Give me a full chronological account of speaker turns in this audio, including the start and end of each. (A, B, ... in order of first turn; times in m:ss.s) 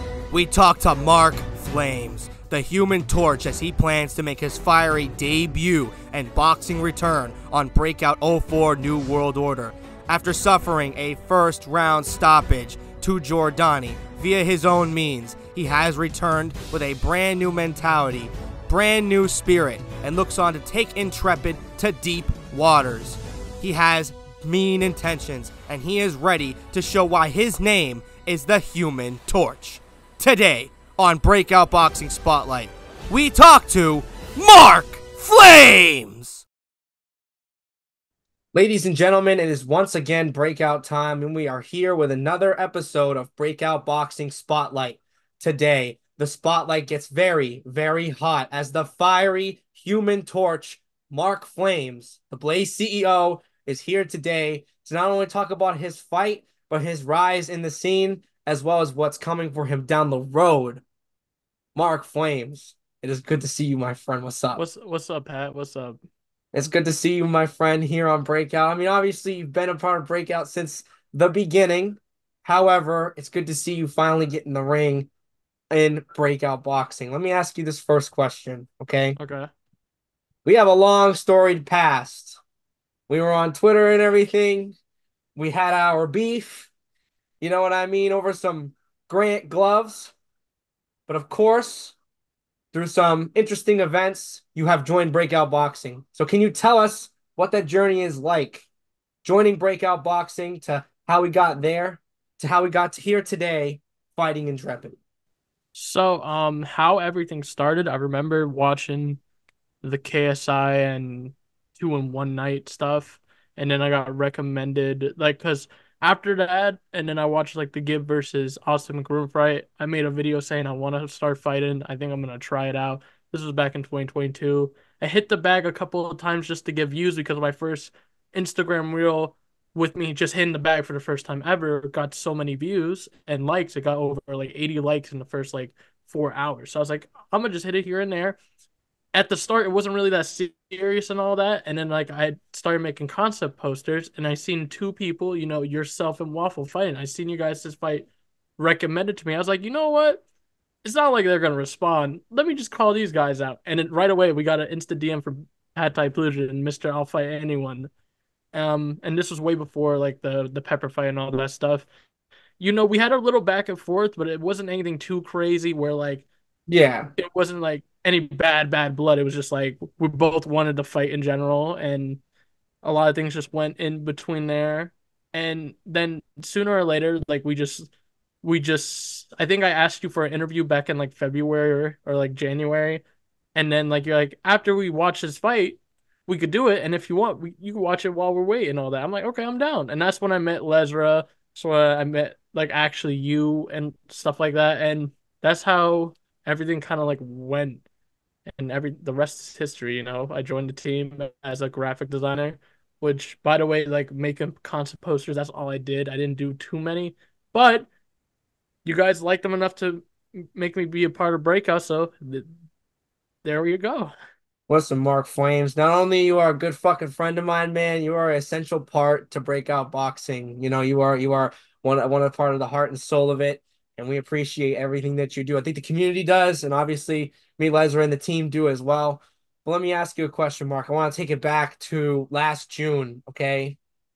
0:00.3-0:36.5 A
0:38.5-1:00.8 A
1:01.8-1:04.6 A
1:04.6-1:06.0 B
1:06.5-1:15.1 A
1:15.7-1:19.2 A
1:19.2-1:19.5 B
1:20.4-1:22.4 A
1:23.1-1:24.8 A
1:25.4-1:26.7 A
1:27.4-1:30.1 A
1:31.1-1:32.0 A
1:32.7-1:38.7 A
1:39.2-1:45.0 A
1:45.7-1:49.2 B
1:49.8-2:18.4 B
2:19.1-2:30.2 B
2:30.8-2:37.9 B
2:38.5-2:41.9 B
2:42.6-2:46.3 B
2:46.7-2:47.1 A
2:47.2-2:52.2 B
2:52.8-2:57.9 B
2:58.4-3:03.0 B
3:03.6-3:17.8 B
3:18.5-3:27.9 B
3:28.8-3:32.5 B
3:33.4-3:34.1 B
3:34.7-3:53.8 A